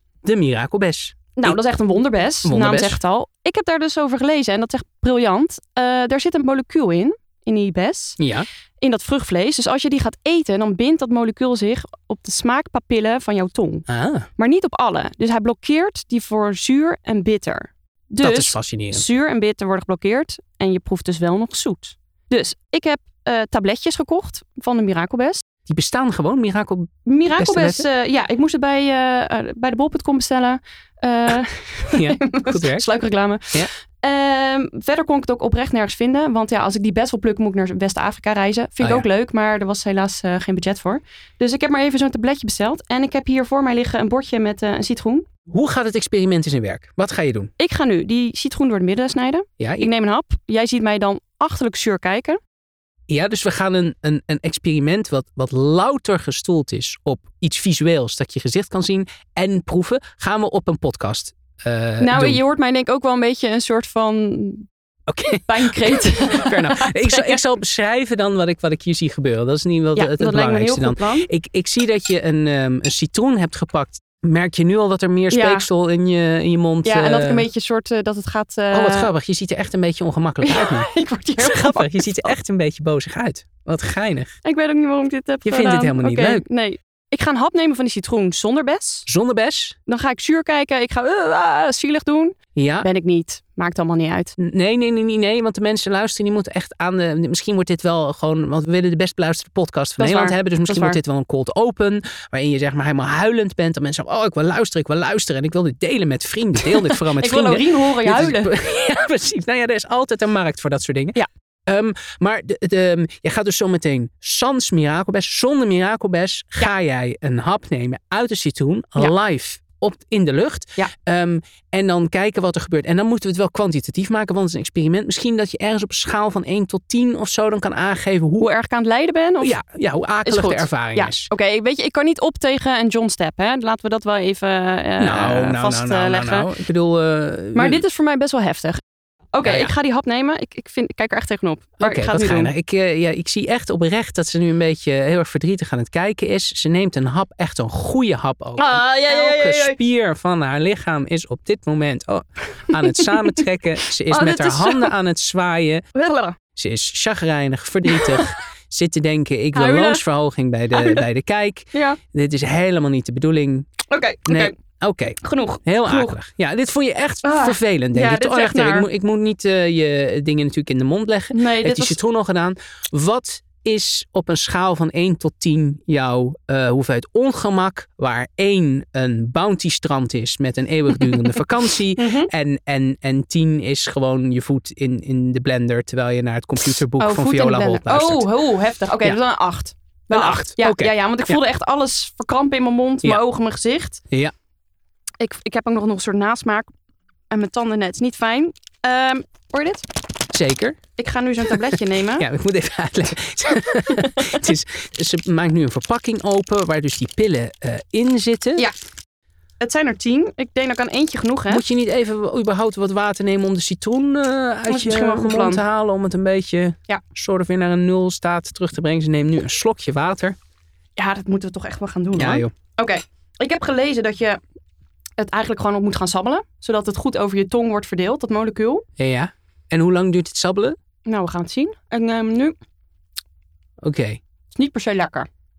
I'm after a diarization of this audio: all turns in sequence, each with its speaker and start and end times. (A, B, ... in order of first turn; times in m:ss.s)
0:00.2-0:01.6 A
0:01.4-0:08.2 B
0:02.4-0:03.0 A
0:08.2-0:08.5 A
0:08.8-0:13.8 B
0:13.9-0:14.3 A
0:14.4-0:25.4 B
0:18.2-0:19.0 A
0:25.7-0:27.8 A
0:27.0-0:45.3 B
0:31.9-0:32.8 A
0:38.8-0:39.0 A
0:45.5-0:47.5 A
0:47.6-0:52.4 B
0:49.6-0:49.9 A
0:53.1-1:02.4 A
1:02.0-1:04.7 B
1:05.1-1:17.5 A
1:05.5-1:07.4 B
1:10.0-1:11.3 B
1:15.3-1:15.6 B
1:16.8-1:19.1 B
1:18.7-1:24.3 A
1:20.4-1:22.3 B
1:24.4-1:29.1 B
1:25.4-1:26.4 A
1:29.1-1:29.8 A
1:29.8-1:34.4 B
1:32.5-1:32.9 A
1:34.4-2:08.5 A
1:40.0-1:41.0 B
1:46.6-1:48.5 B
2:08.4-2:09.5 B
2:09.4-2:11.3 A
2:10.2-2:16.5 B
2:15.0-2:17.8 A
2:17.5-2:18.8 B
2:19.3-2:22.5 B
2:19.4-2:19.7 A
2:21.8-2:35.8 A
2:28.6-2:29.8 B
2:32.7-2:33.3 B
2:34.1-2:34.9 B
2:35.9-2:36.4 B
2:36.6-2:43.7 A
2:37.9-2:38.3 B
2:39.5-2:40.0 B
2:40.7-2:41.0 B
2:41.7-2:42.0 B
2:43.9-2:44.5 B
2:44.3-3:08.3 A
2:45.2-2:46.2 B
2:47.2-2:48.9 B
2:51.3-2:52.0 B
3:02.0-3:02.3 B
3:07.0-3:14.0 B
3:10.1-3:11.4 A
3:15.2-3:16.6 B
3:17.3-3:19.8 B
3:20.3-3:20.8 A
3:21.0-3:22.3 B
3:22.2-3:28.7 A
3:29.6-3:31.6 B
3:31.5-3:40.4 A
3:34.7-3:35.6 B
3:41.0-3:44.4 B
3:42.2-3:42.5 A
3:45.2-3:48.8 B
3:49.0-3:50.8 A
3:51.0-3:52.5 B
3:53.8-3:54.2 A
3:54.5-3:55.3 B